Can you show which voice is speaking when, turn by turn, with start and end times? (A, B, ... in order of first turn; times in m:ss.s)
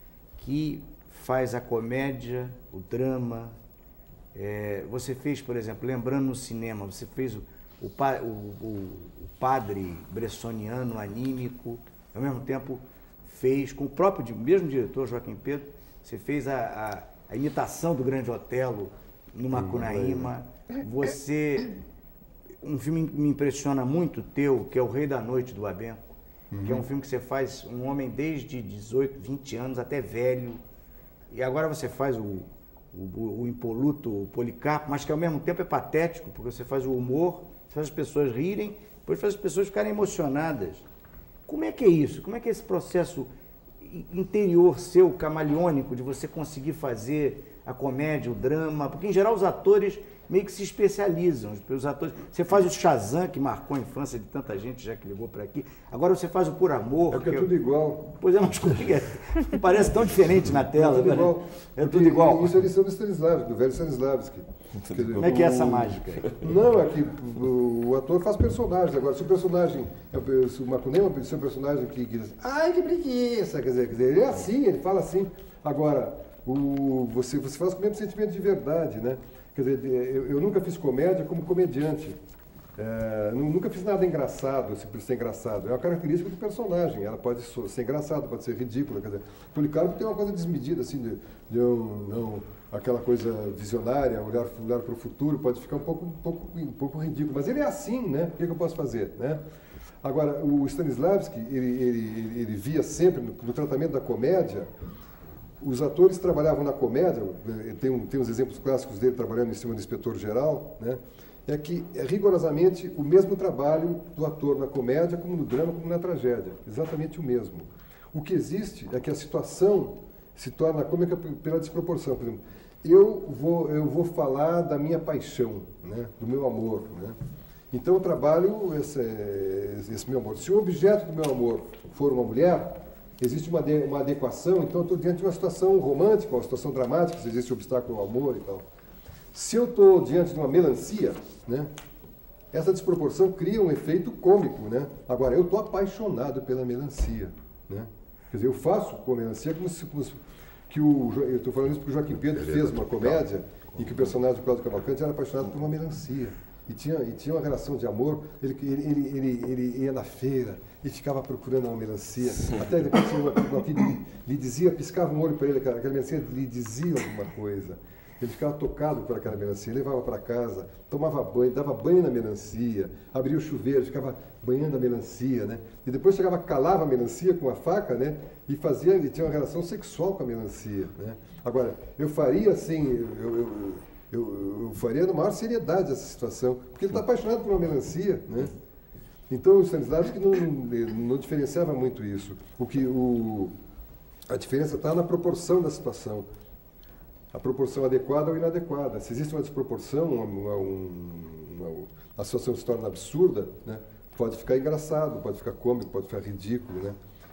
0:00.4-0:03.6 A
0:04.3-0:21.8 A
0:19.6-0:20.3 B
0:22.6-0:26.0 A
0:26.5-0:26.8 B
0:26.6-0:30.6 A
0:31.3-0:40.8 A
0:41.5-0:43.3 A
0:43.8-0:57.5 A
0:57.1-0:58.0 B
0:58.0-1:02.6 A
1:00.6-1:22.2 B
1:05.2-1:06.4 A
1:22.8-1:39.4 B
1:40.0-1:44.7 B
1:45.6-2:07.2 B
2:07.7-2:18.6 B
2:19.3-2:21.7 B
2:22.5-3:08.5 B
3:09.3-3:13.5 B
3:14.3-3:16.2 B
3:17.3-3:27.0 B